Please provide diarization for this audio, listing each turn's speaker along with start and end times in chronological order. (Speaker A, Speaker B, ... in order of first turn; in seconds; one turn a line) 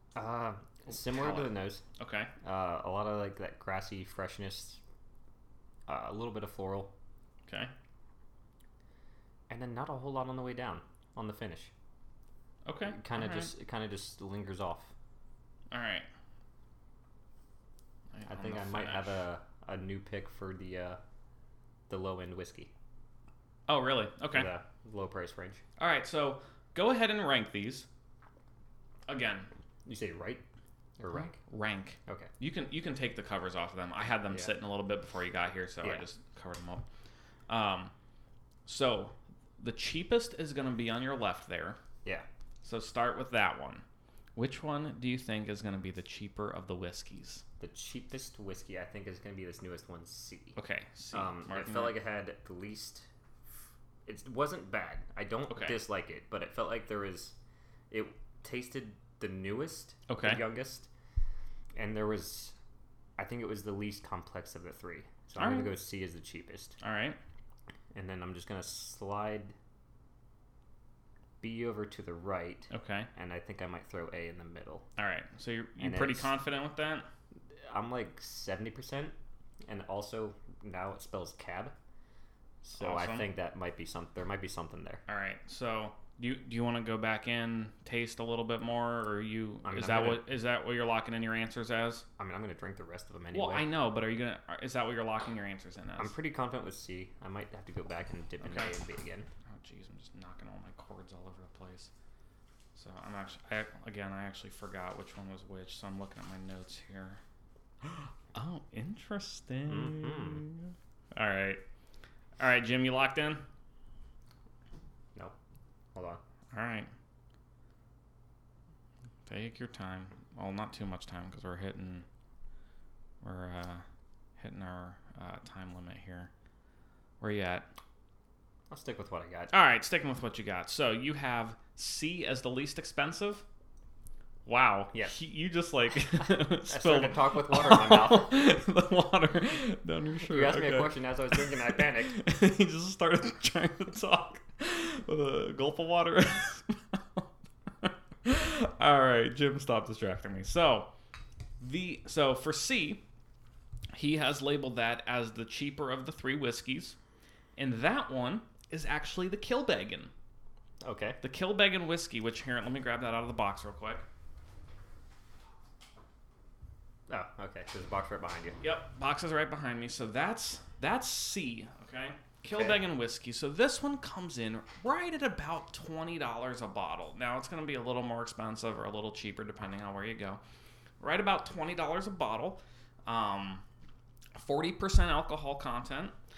Speaker A: 0.1-1.8
Speaker B: 0.9-2.3
Speaker A: 2.4-4.8
Speaker A: 5.9-6.9
Speaker B: 7.5-7.7
Speaker A: 9.5-11.7
Speaker B: 12.6-13.5
Speaker A: 12.9-14.9
Speaker B: 15.7-16.1
Speaker B: 18.1-19.2
Speaker A: 18.3-21.0
Speaker A: 21.9-22.7
Speaker B: 23.7-24.5
Speaker A: 24.3-25.6
Speaker B: 25.8-27.9
Speaker B: 29.1-29.5
Speaker A: 29.9-30.4
Speaker A: 31.0-31.4
Speaker B: 31.1-36.8
Speaker B: 37.5-37.9
Speaker B: 38.6-41.8
Speaker B: 42.6-43.8
Speaker B: 44.4-47.4
Speaker A: 47.6-50.6
Speaker B: 50.5-52.0
Speaker A: 51.1-53.1
Speaker A: 54.0-57.4
Speaker B: 55.5-55.8
Speaker A: 57.9-60.9
Speaker B: 60.1-60.5
Speaker A: 61.7-62.5
Speaker A: 63.2-66.8
Speaker B: 65.4-65.8
Speaker B: 66.8-67.2
Speaker A: 67.9-69.5
Speaker A: 71.4-74.8
Speaker B: 72.7-73.1
Speaker B: 75.0-77.1
Speaker A: 75.8-76.3
Speaker A: 77.6-81.7
Speaker A: 82.6-85.0
Speaker B: 82.8-83.3
Speaker B: 85.1-92.0
Speaker A: 89.6-90.3
Speaker A: 92.2-93.7
Speaker B: 93.3-96.1
Speaker A: 96.0-99.3
Speaker B: 98.4-98.7
Speaker B: 99.5-101.9
Speaker B: 102.7-107.2
Speaker B: 107.8-111.6
Speaker A: 109.7-110.4
Speaker B: 112.4-113.4
Speaker A: 115.9-116.2
Speaker B: 116.5-116.9
Speaker B: 119.2-122.0
Speaker B: 123.2-123.8
Speaker B: 124.4-126.3
Speaker B: 127.2-127.7
Speaker A: 128.7-129.5
Speaker B: 129.5-133.4
Speaker B: 134.4-147.3
Speaker A: 136.2-138.4
Speaker A: 140.3-142.1
Speaker B: 147.8-150.9
Speaker B: 151.6-153.0
Speaker B: 153.9-156.9
Speaker B: 157.6-160.1
Speaker A: 160.8-161.2
Speaker B: 161.2-164.1
Speaker A: 167.1-168.6
Speaker B: 168.6-180.4
Speaker A: 172.5-172.8
Speaker B: 181.0-183.6
Speaker B: 184.3-186.1